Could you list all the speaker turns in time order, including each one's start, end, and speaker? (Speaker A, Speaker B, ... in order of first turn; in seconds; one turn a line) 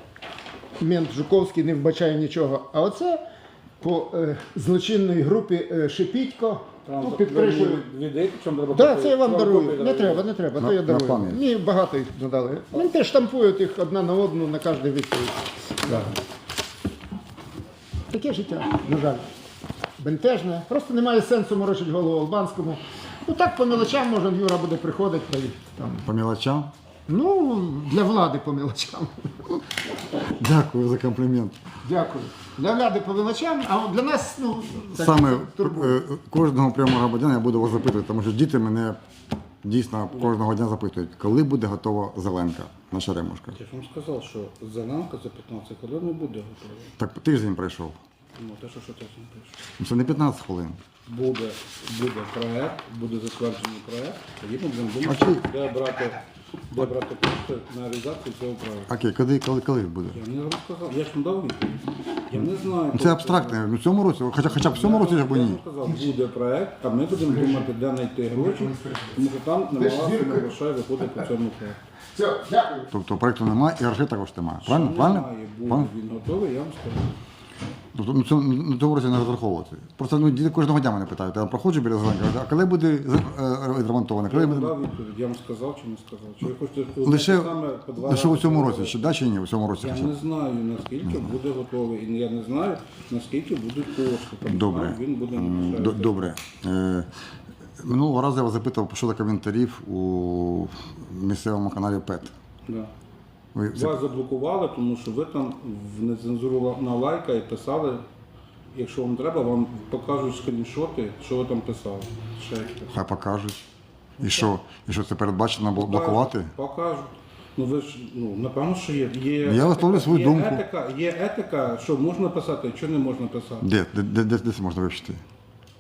Speaker A: 0.8-3.2
Speaker A: 3.8-7.8
Speaker B: 6.8-10.3
Speaker A: 8.7-16.2
Speaker C: 10.6-11.4
Speaker A: 18.1-19.3
Speaker A: 20.0-26.1
Speaker C: 26.0-26.7
Speaker A: 27.1-29.6
Speaker C: 30.3-31.6
Speaker A: 31.8-36.0
Speaker C: 34.9-39.0
Speaker C: 39.6-43.6
Speaker B: 43.5-47.0
Speaker C: 47.0-48.0
Speaker B: 48.4-49.6
Speaker C: 49.8-50.8
Speaker B: 51.1-58.9
Speaker C: 55.0-55.5
Speaker C: 58.9-60.2
Speaker B: 60.1-63.6
Speaker C: 62.4-65.6
Speaker B: 64.5-71.8
Speaker A: 68.6-69.2
Speaker A: 69.8-70.5
Speaker A: 72.1-72.9
Speaker C: 72.9-75.9
Speaker B: 74.6-77.2
Speaker C: 77.9-84.8
Speaker B: 84.3-89.1
Speaker C: 87.0-90.1
Speaker B: 89.8-96.3
Speaker C: 91.0-91.3
Speaker C: 94.5-97.1
Speaker C: 97.8-102.3
Speaker C: 103.5-104.0
Speaker B: 103.7-108.0
Speaker B: 108.7-113.0
Speaker C: 112.9-113.6
Speaker C: 114.2-116.5
Speaker B: 115.8-123.7
Speaker C: 119.4-120.6
Speaker C: 123.6-125.2